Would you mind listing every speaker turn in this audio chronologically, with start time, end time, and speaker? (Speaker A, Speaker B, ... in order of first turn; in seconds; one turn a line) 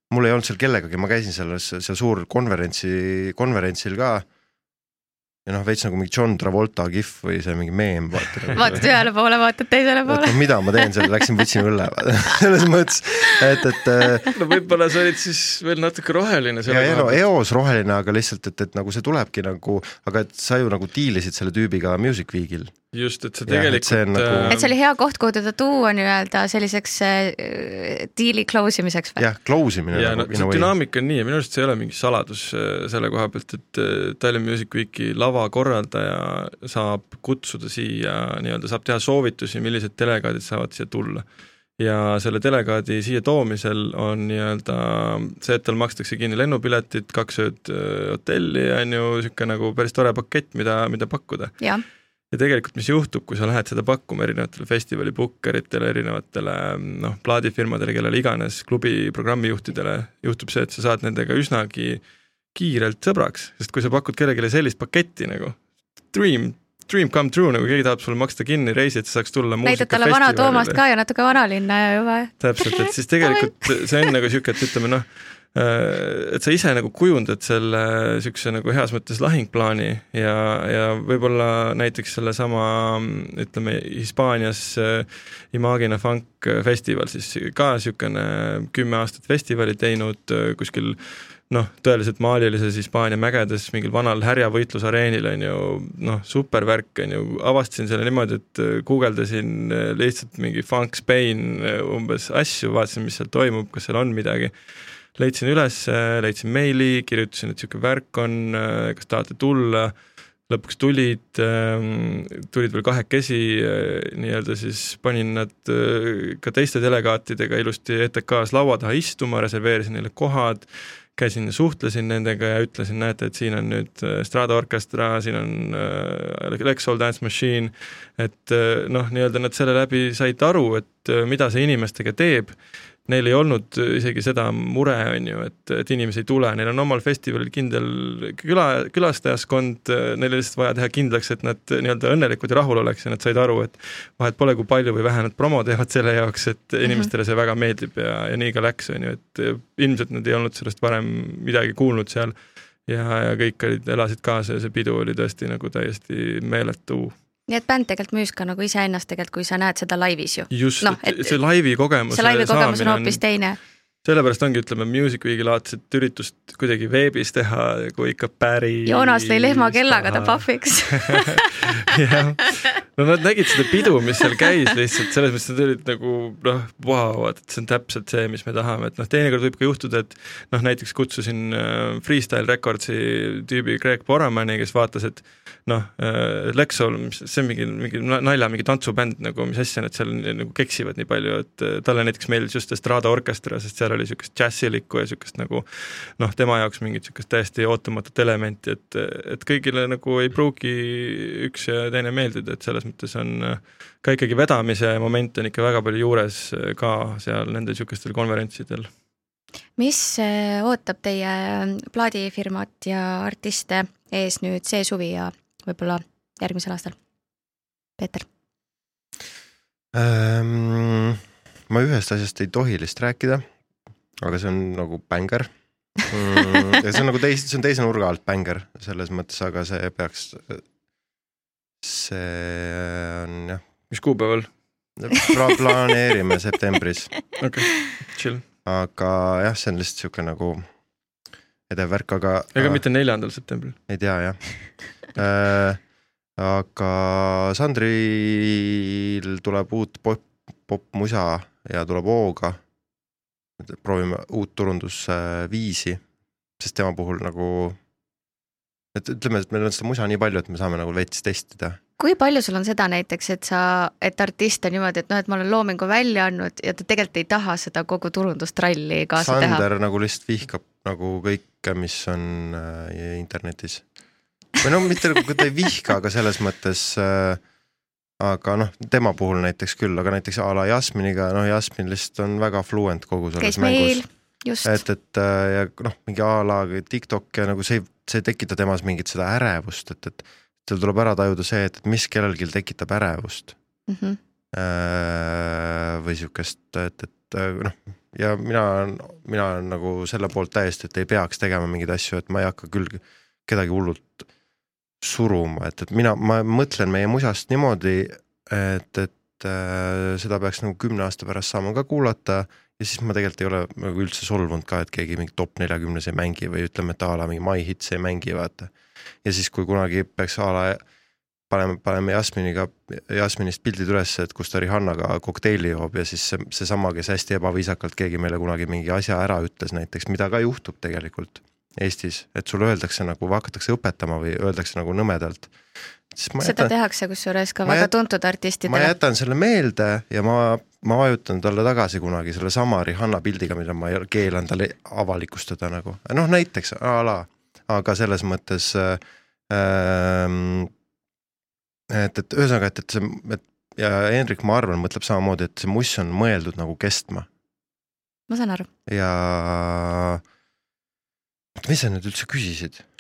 Speaker A: 0.1-4.2
Speaker A: 5.5-8.9
Speaker B: 8.4-8.8
Speaker C: 8.6-10.9
Speaker A: 10.1-14.3
Speaker B: 14.3-17.2
Speaker A: 16.7-22.8
Speaker B: 22.9-24.8
Speaker A: 23.5-24.5
Speaker C: 24.5-29.2
Speaker A: 29.2-30.7
Speaker B: 29.9-41.2
Speaker B: 41.8-51.6
Speaker B: 52.3-62.0
Speaker B: 62.5-70.8
Speaker C: 69.7-74.1
Speaker B: 72.4-104.5
Speaker B: 105.1-109.9
Speaker B: 110.5-152.3
Speaker C: 146.8-147.1
Speaker B: 152.9-157.1
Speaker C: 157.5-161.4
Speaker B: 160.5-163.2
Speaker C: 162.1-163.6
Speaker B: 164.0-208.9
Speaker C: 168.9-171.4
Speaker C: 209.8-217.0
Speaker C: 218.0-218.3
Speaker A: 219.9-223.4
Speaker A: 224.2-225.5
Speaker A: 226.1-230.6
Speaker A: 231.8-233.6
Speaker B: 233.9-234.5
Speaker A: 235.0-237.1
Speaker B: 237.4-238.4
Speaker A: 238.7-240.7
Speaker A: 241.7-242.8
Speaker B: 242.6-243.8
Speaker A: 243.9-245.8
Speaker A: 246.4-252.6
Speaker A: 253.6-256.0
Speaker A: 256.6-257.8
Speaker A: 258.9-261.8
Speaker C: 262.0-269.6
Speaker A: 269.2-273.8
Speaker A: 274.6-277.4
Speaker A: 278.2-284.0
Speaker C: 283.4-284.8
Speaker A: 284.6-293.6
Speaker C: 293.9-294.2
Speaker A: 294.5-304.3
Speaker A: 305.0-318.7
Speaker A: 319.2-320.8
Speaker A: 321.5-335.5
Speaker A: 336.1-336.7
Speaker C: 336.4-338.9
Speaker A: 337.6-337.9
Speaker A: 338.6-350.7
Speaker A: 351.9-357.3
Speaker C: 358.3-358.7
Speaker A: 358.9-360.2
Speaker A: 361.6-362.9